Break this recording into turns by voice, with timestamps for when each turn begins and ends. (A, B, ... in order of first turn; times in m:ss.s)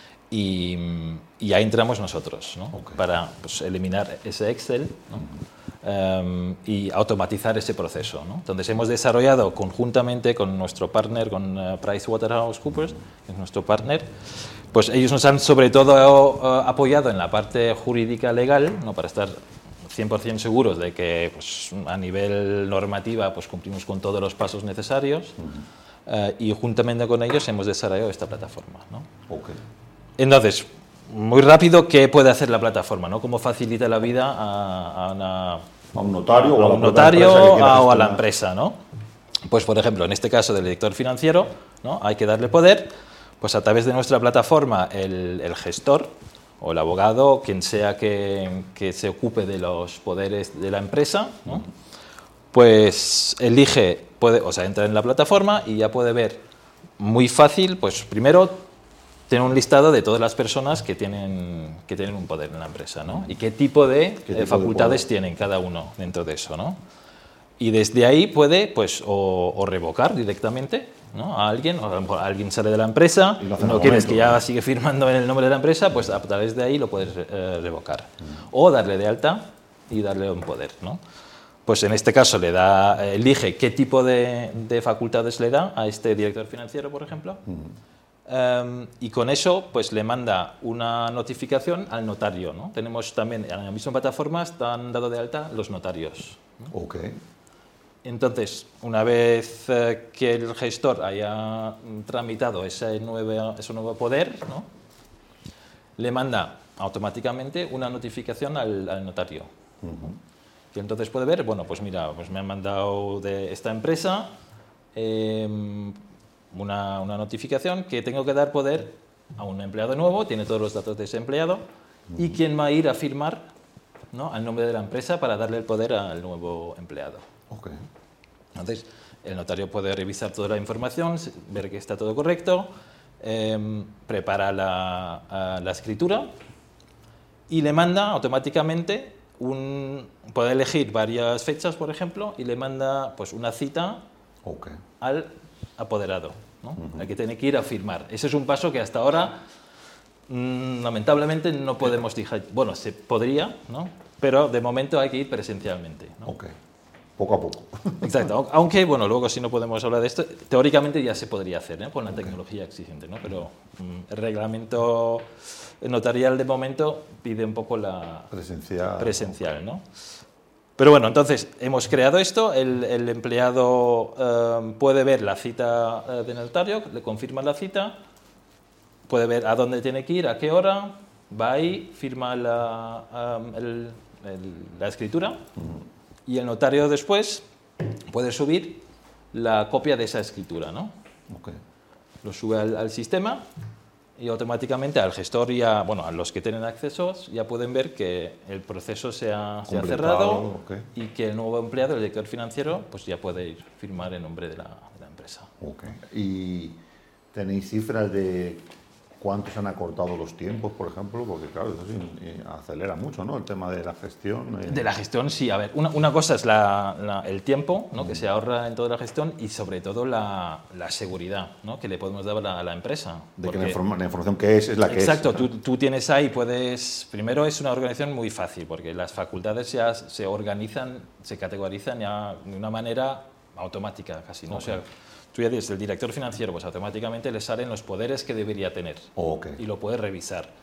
0:00.3-0:05.3 A
0:02.7-0:03.0 B
0:05.8-0:19.4 A
0:19.9-0:25.4 A
0:25.4-0:25.6 B
0:26.1-0:29.1 A
0:29.3-0:29.6 B
0:30.2-0:35.6 A
0:35.9-0:38.2 B
0:36.3-0:38.8 A
0:39.5-0:51.7 A
0:52.5-0:56.4 A
0:57.0-0:58.6 A
0:59.3-1:06.8 A
1:04.2-1:05.0 B
1:07.6-1:21.0 A
1:13.4-1:14.4 B
1:21.7-1:27.4 A
1:27.5-1:27.8 B
1:28.3-1:36.7 A
1:36.7-1:37.2 B
1:38.0-1:44.7 A
1:46.0-1:49.5 A
1:49.8-1:50.2 B
1:50.7-1:54.3 A
1:55.0-1:56.0 A
1:56.5-2:01.6 A
2:02.1-2:02.4 B
2:02.2-2:03.4 A
2:04.1-2:07.2 A
2:07.5-2:07.8 B
2:08.5-2:12.7 A
2:13.2-2:16.3 A
2:17.5-2:24.0 A
2:24.4-2:24.8 B
2:25.0-2:29.4 A
2:26.8-2:27.1 B
2:30.3-2:36.3 A
2:36.2-2:36.5 B
2:37.2-2:38.2 B
2:38.0-2:48.3 A
2:48.3-2:49.4 B
2:49.0-2:49.8 A
2:50.8-2:58.0 A
2:59.1-3:05.4 A
3:06.3-3:07.4 A
3:08.1-3:10.9 A
3:11.3-3:11.6 B
3:12.2-3:13.4 A
3:14.2-3:25.5 A
3:19.6-3:20.9 B
3:25.6-3:26.8 B
3:27.3-3:28.6 B
3:29.2-3:34.9 B
3:34.6-3:43.8 A
3:38.0-3:38.2 B
3:43.4-3:45.4 B
3:44.9-4:00.5 A
3:54.5-3:54.8 B
3:59.2-3:59.6 B